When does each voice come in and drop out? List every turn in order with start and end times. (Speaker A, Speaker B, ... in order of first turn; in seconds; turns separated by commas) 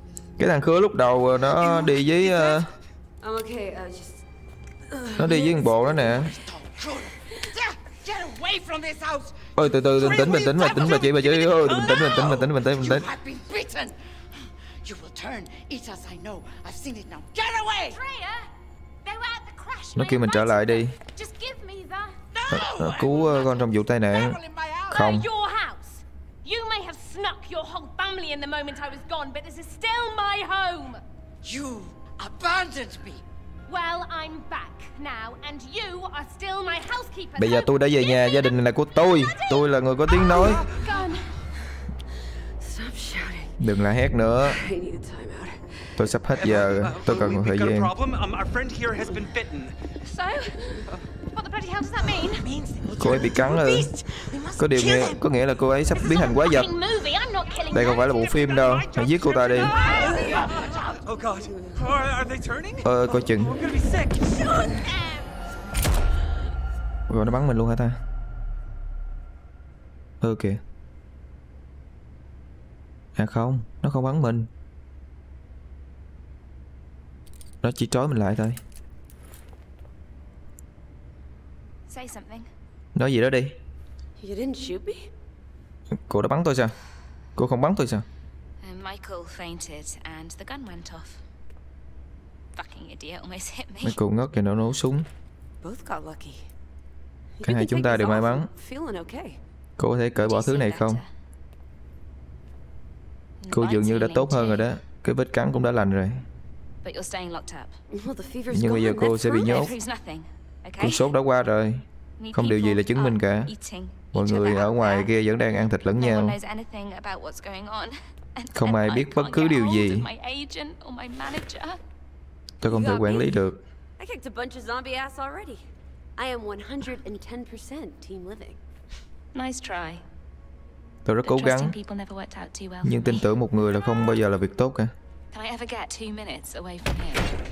Speaker A: 0.4-2.7, Speaker B: 1.6-2.5, Speaker B: 3.2-4.2, Speaker B: 4.9-5.6, Speaker A: 5.2-6.3, Speaker C: 5.3-18.0, Speaker A: 9.6-13.1, Speaker D: 10.0-12.4, Speaker D: 17.9-18.5, Speaker D: 19.0-22.2, Speaker A: 20.0-21.0, Speaker C: 22.3-25.2, Speaker A: 22.5-24.4, Speaker A: 24.9-25.3, Speaker D: 24.9-31.0, Speaker C: 31.4-33.2, Speaker D: 33.7-41.3, Speaker A: 37.4-40.6, Speaker B: 42.6-43.6, Speaker A: 43.6-44.6, Speaker B: 44.4-45.8, Speaker A: 46.0-47.9, Speaker E: 46.3-49.8, Speaker D: 50.0-52.5, Speaker C: 52.2-55.3, Speaker A: 53.0-53.9, Speaker A: 54.6-56.7, Speaker D: 56.0-60.4, Speaker A: 57.7-59.8, Speaker E: 58.6-64.3, Speaker C: 59.6-60.7, Speaker A: 62.8-63.5, Speaker A: 67.1-68.0, Speaker A: 70.2-70.6, Speaker A: 73.2-74.5, Speaker A: 77.6-78.6, Speaker D: 81.9-82.5, Speaker A: 83.0-83.6, Speaker B: 84.2-85.1, Speaker A: 85.9-86.7, Speaker A: 87.4-88.0, Speaker D: 88.6-91.2, Speaker D: 92.5-94.0, Speaker A: 93.8-95.1, Speaker B: 95.6-96.5, Speaker B: 97.4-99.4, Speaker A: 97.4-98.5, Speaker A: 99.8-101.0, Speaker D: 100.2-101.1, Speaker D: 103.4-104.7, Speaker A: 103.5-106.2, Speaker D: 106.8-107.7, Speaker B: 107.9-109.8, Speaker A: 108.5-109.7, Speaker D: 109.1-111.1, Speaker A: 110.8-113.5, Speaker D: 112.2-115.1, Speaker A: 114.1-116.4, Speaker D: 115.9-121.8, Speaker A: 118.5-120.1, Speaker A: 122.6-123.6, Speaker B: 122.6-123.4, Speaker B: 124.0-125.7, Speaker B: 126.2-128.6, Speaker D: 129.3-130.1, Speaker A: 131.1-131.8, Speaker D: 131.2-133.4, Speaker A: 132.8-134.9, Speaker D: 135.3-137.3